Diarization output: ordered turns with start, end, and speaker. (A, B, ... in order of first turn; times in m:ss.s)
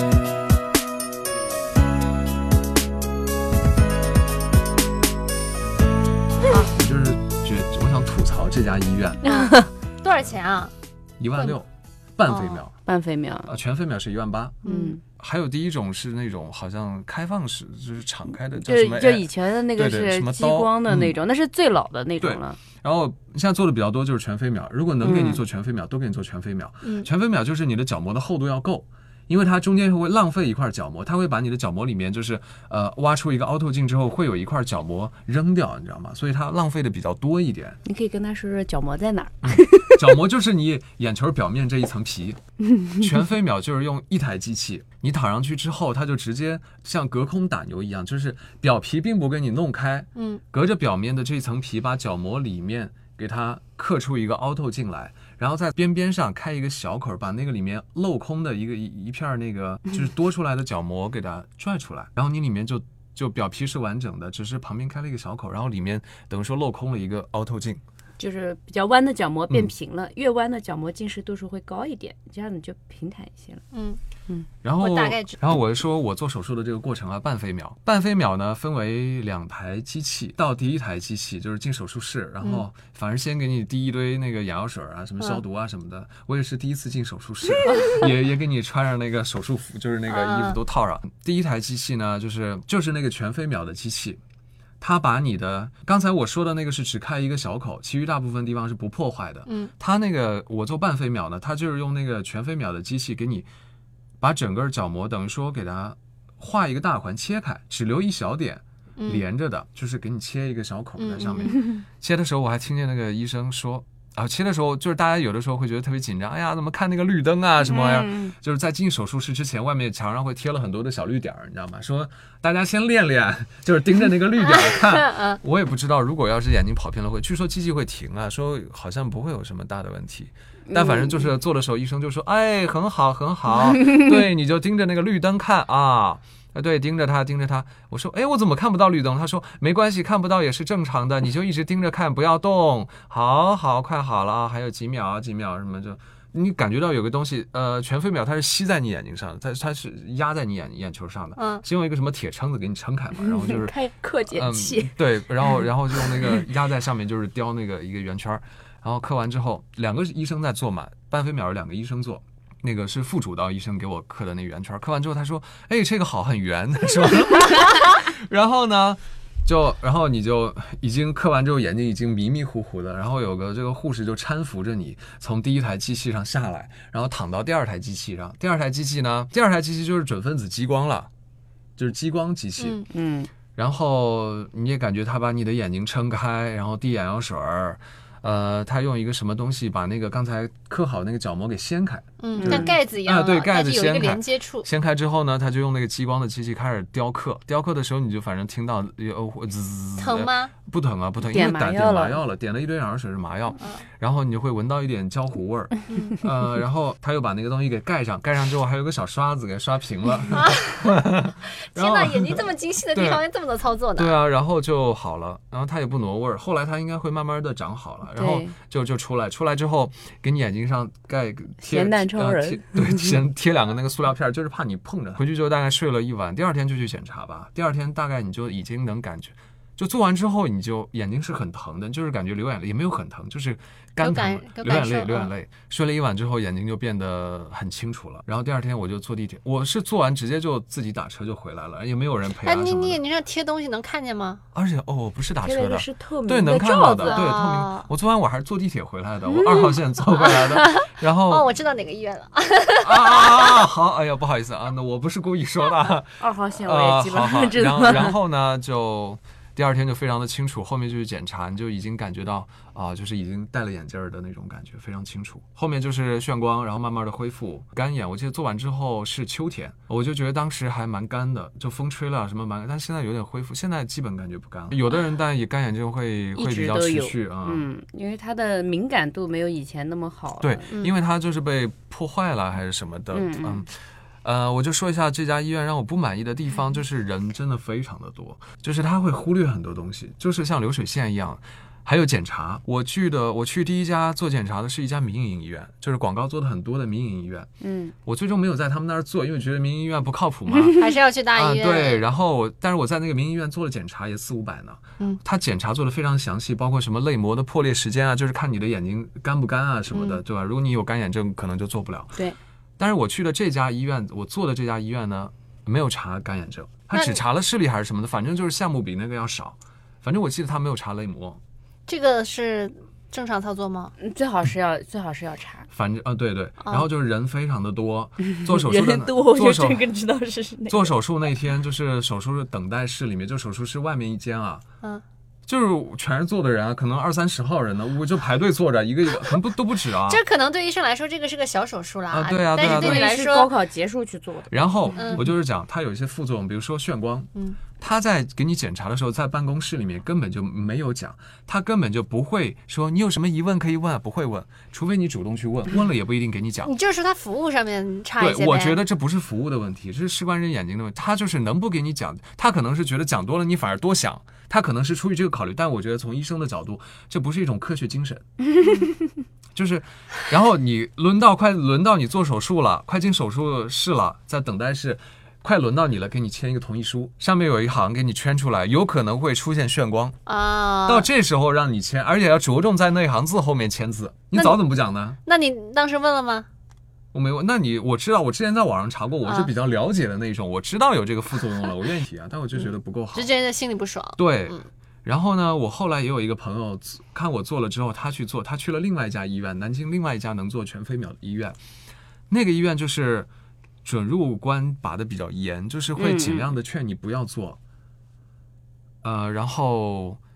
0:06.6-0:09.2 A
0:09.2-0:10.7 B
0:09.3-0:09.7 C
0:11.2-0:12.7 A
0:12.2-0:12.6 B
0:12.8-0:13.5 C
0:13.5-0:14.6 A
0:14.6-0:14.9 B
0:14.6-0:15.0 C
0:15.2-0:21.1 A
0:18.6-0:22.6 C
0:22.2-0:37.8 A
0:25.0-0:25.4 C
0:26.8-0:27.1 B
0:37.8-0:40.2 C
0:39.4-0:42.4 A
0:42.7-0:43.0 C
0:43.0-1:07.8 A
0:50.1-0:50.4 B
1:08.2-1:13.6 C
1:13.7-1:14.0 B
1:14.6-1:34.2 A
1:14.8-1:15.4 B
1:27.7-1:28.0 B
1:30.1-1:30.6 B
1:34.8-1:43.4 A
1:39.4-1:39.7 B
1:44.2-2:33.8 A
1:49.0-1:49.2 B
1:51.0-1:51.6 B
1:57.6-1:58.3 C
2:04.4-2:05.4 B
2:10.7-2:11.3 C
2:31.4-2:31.6 B
2:33.2-2:36.4 C
2:34.3-3:01.1 A
3:01.8-3:02.8 A
3:02.6-3:02.8 B
3:02.9-3:03.3 C
3:03.6-3:33.2 A
3:12.2-3:14.6 B
3:12.4-3:12.7 C
3:20.0-3:20.5 B
3:21.2-3:22.2 C
3:30.3-3:30.9 B
3:31.6-3:34.2 B
3:34.0-4:03.0 A
3:38.1-3:38.5 C
3:41.6-3:43.2 C
3:54.0-3:55.3 B
4:02.4-4:04.4 B
4:04.5-4:11.5 A
4:05.4-4:07.3 C
4:07.0-4:07.9 B
4:09.4-4:09.7 C
4:10.2-4:13.6 B
4:12.8-4:37.7 A
4:16.2-4:18.2 C
4:36.4-4:40.7 C
4:40.4-4:43.7 A
4:43.1-4:43.6 C
4:44.2-4:57.5 A
4:57.6-4:57.9 C
4:58.0-5:00.8 A
5:00.8-5:02.0 B
5:01.3-5:12.2 A
5:09.9-5:10.2 B
5:12.8-5:21.4 A
5:16.9-5:17.2 B
5:21.9-5:23.9 B
5:24.0-5:25.7 C
5:25.7-5:29.9 A
5:28.4-5:30.9 C
5:30.7-5:34.6 A
5:35.5-5:40.2 A
5:40.0-5:43.5 B
5:42.1-5:43.1 A
5:42.6-5:44.6 C
5:44.5-5:56.7 A
5:44.9-5:45.2 B
5:56.6-5:58.8 B
5:58.2-6:08.2 A
6:09.5-6:20.2 A
6:20.2-6:21.1 B
6:20.9-6:25.2 A
6:24.3-6:24.6 B
6:25.2-6:26.5 B
6:27.1-6:33.3 A
6:29.2-6:29.5 B
6:33.1-6:34.6 B
6:34.2-6:41.6 A
6:42.3-6:43.3 A
6:43.8-6:47.6 A
6:46.0-6:46.5 C
6:49.0-6:50.2 A